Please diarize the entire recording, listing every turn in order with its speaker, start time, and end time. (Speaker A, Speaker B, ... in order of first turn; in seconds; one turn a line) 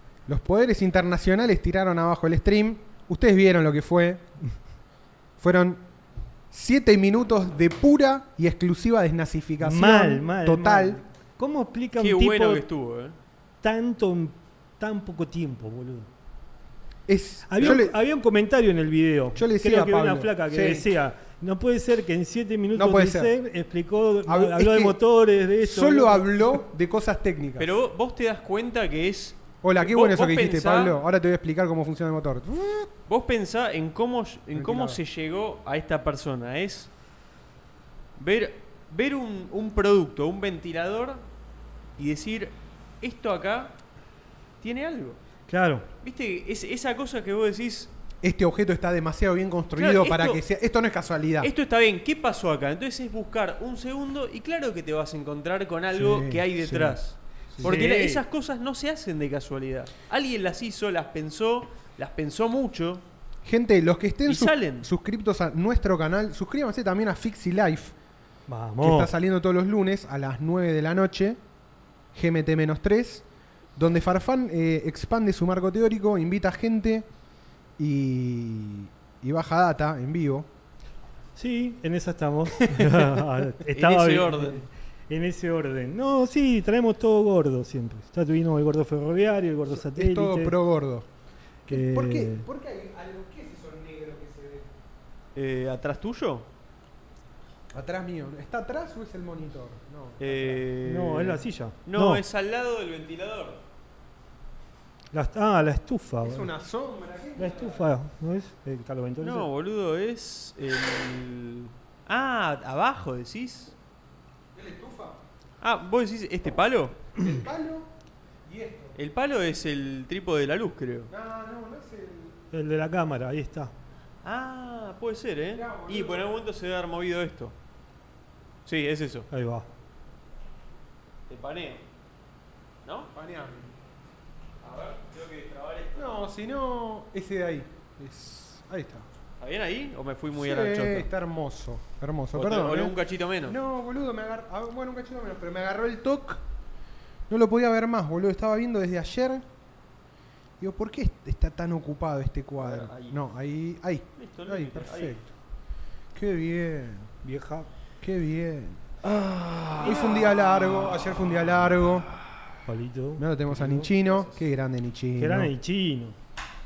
Speaker A: 0.3-4.3
Speaker A: 5.4-5.8
Speaker A: 6.5-11.0
Speaker B: 9.6-12.6
Speaker C: 12.0-13.2
Speaker B: 13.6-16.1
Speaker A: 17.1-18.0
Speaker B: 17.5-26.4
Speaker A: 19.3-20.8
Speaker A: 22.7-23.3
Speaker A: 24.2-25.0
Speaker A: 25.6-27.7
Speaker C: 27.6-31.0
Speaker A: 29.6-32.9
Speaker C: 33.1-36.9
Speaker A: 34.5-35.0
Speaker C: 38.2-41.2
Speaker C: 42.0-43.8
Speaker C: 44.6-45.2
Speaker B: 45.5-45.9
Speaker C: 46.0-47.9
Speaker A: 48.2-51.5
Speaker C: 49.7-50.4
Speaker C: 51.4-63.0
Speaker A: 55.9-57.0
Speaker A: 57.5-57.8
Speaker B: 57.6-58.2
Speaker A: 63.4-67.9
Speaker C: 64.2-64.9
Speaker B: 68.5-69.1
Speaker A: 68.8-71.4
Speaker A: 72.1-73.2
Speaker A: 73.8-77.1
Speaker A: 77.8-80.5
Speaker B: 81.3-90.6
Speaker A: 82.7-83.0
Speaker C: 83.7-84.6
Speaker A: 89.7-91.1
Speaker A: 91.7-94.7
Speaker B: 91.7-92.5
Speaker C: 95.3-96.5
Speaker A: 97.7-100.6
Speaker C: 100.2-103.6
Speaker B: 100.8-102.2
Speaker B: 105.1-106.5
Speaker A: 106.2-107.8
Speaker B: 107.4-109.5
Speaker C: 109.2-113.7
Speaker A: 114.5-115.2
Speaker C: 115.6-117.1
Speaker A: 117.2-117.9
Speaker A: 118.4-118.9
Speaker C: 119.0-121.1
Speaker A: 121.1-122.4
Speaker B: 122.5-123.7
Speaker C: 124.2-127.5
Speaker A: 125.5-126.2
Speaker C: 128.7-129.3
Speaker B: 129.3-129.7
Speaker C: 131.3-131.8
Speaker C: 132.8-133.1
Speaker A: 133.1-133.7
Speaker C: 134.6-136.1
Speaker A: 135.9-139.1
Speaker C: 139.4-141.1
Speaker A: 140.3-146.4
Speaker C: 142.3-143.6
Speaker A: 147.3-149.4
Speaker A: 150.6-155.3
Speaker C: 152.6-153.2
Speaker C: 154.2-155.2
Speaker A: 156.1-157.1
Speaker B: 157.2-157.7
Speaker A: 158.0-159.0
Speaker C: 159.0-160.8
Speaker A: 159.8-162.1
Speaker B: 162.7-163.8
Speaker A: 163.2-165.5
Speaker C: 163.7-164.4
Speaker B: 165.2-166.2